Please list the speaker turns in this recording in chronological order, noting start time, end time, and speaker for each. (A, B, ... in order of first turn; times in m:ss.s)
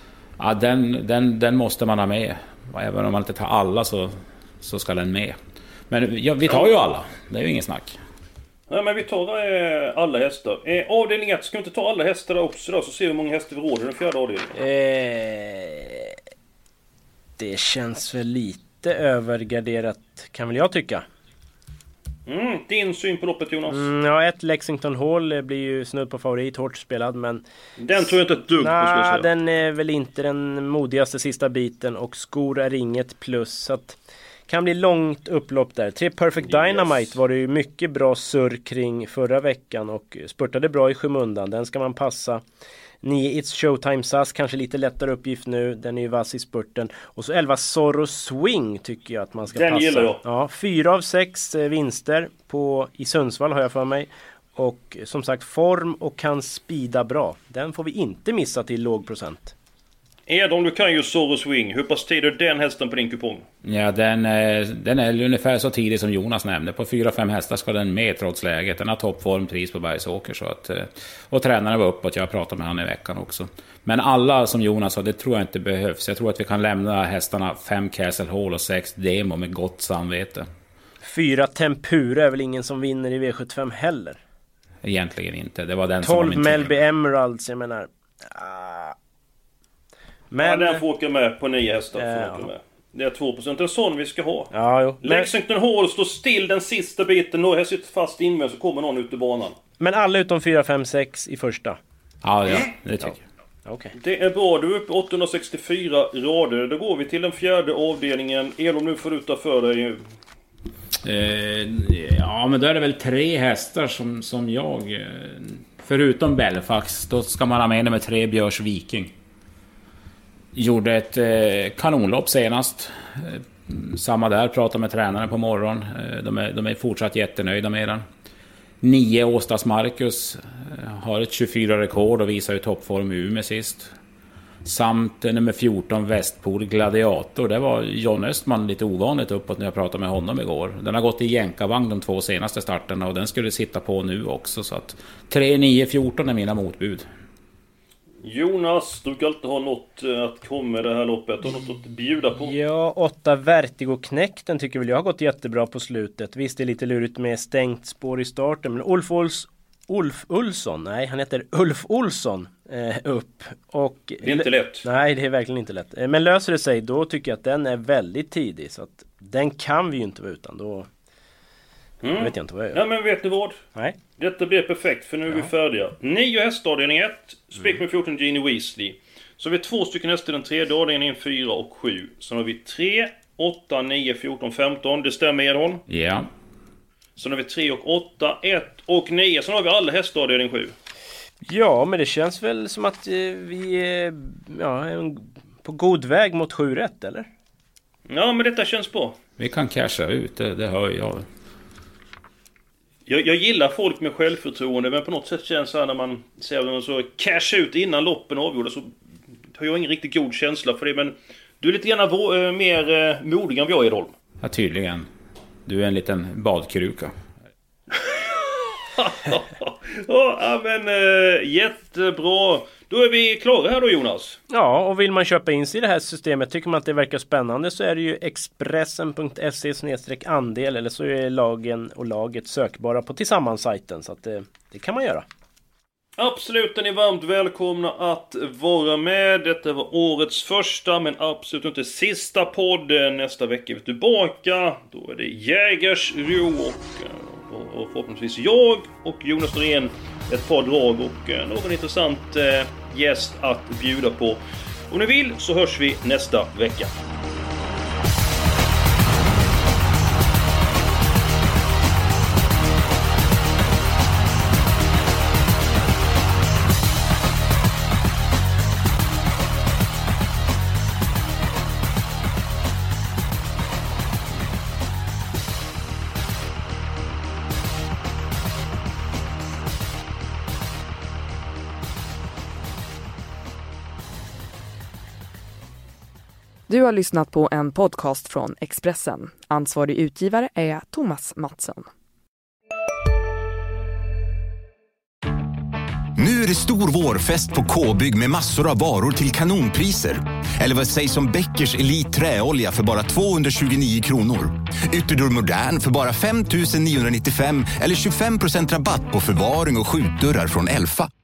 0:00.4-0:05.4 A
0:05.9-0:08.0 A
0:06.5-0:06.7 B
0:08.7-0:14.6 B
0:14.5-0:16.2 C
0:17.4-0:21.0 C
0:22.3-0:23.8 B
0:23.7-0:27.4 C
0:27.8-0:29.3 B
0:28.1-0:42.4 C
0:36.4-0:37.1 B
0:43.0-0:59.5 C
0:49.5-0:50.2 B
1:00.3-1:03.4 B
1:03.6-1:20.4 A
1:21.0-1:24.2 C
1:24.8-1:26.8 A
1:26.0-1:28.9 C
1:30.3-1:30.8 C
1:30.4-1:39.6 B
1:31.9-1:32.5 C
1:34.5-1:35.3 C
1:39.8-1:41.8 C
1:42.2-1:43.2 A
1:43.6-1:43.9 C
1:43.9-1:50.0 B
1:51.0-1:59.1 A
2:00.5-2:08.0 A
2:08.8-2:13.9 A
2:14.6-2:27.0 A
2:28.2-2:32.5 B
2:32.4-2:50.9 C
2:44.2-2:44.9 B
2:52.0-2:53.6 B
2:52.1-2:52.8 C
2:54.2-3:05.8 B
3:05.9-3:06.3 A
3:07.2-3:10.7 B
3:11.4-3:17.3 C
3:18.1-3:19.2 B
3:19.4-3:21.2 A
3:23.0-3:28.9 B
3:29.5-3:34.1 B
3:34.4-3:35.1 A
3:35.6-3:37.1 A
3:37.9-3:44.4 B
3:44.5-3:55.2 C
3:56.2-4:16.9 B
4:46.7-4:51.8 D
4:56.2-5:11.1 E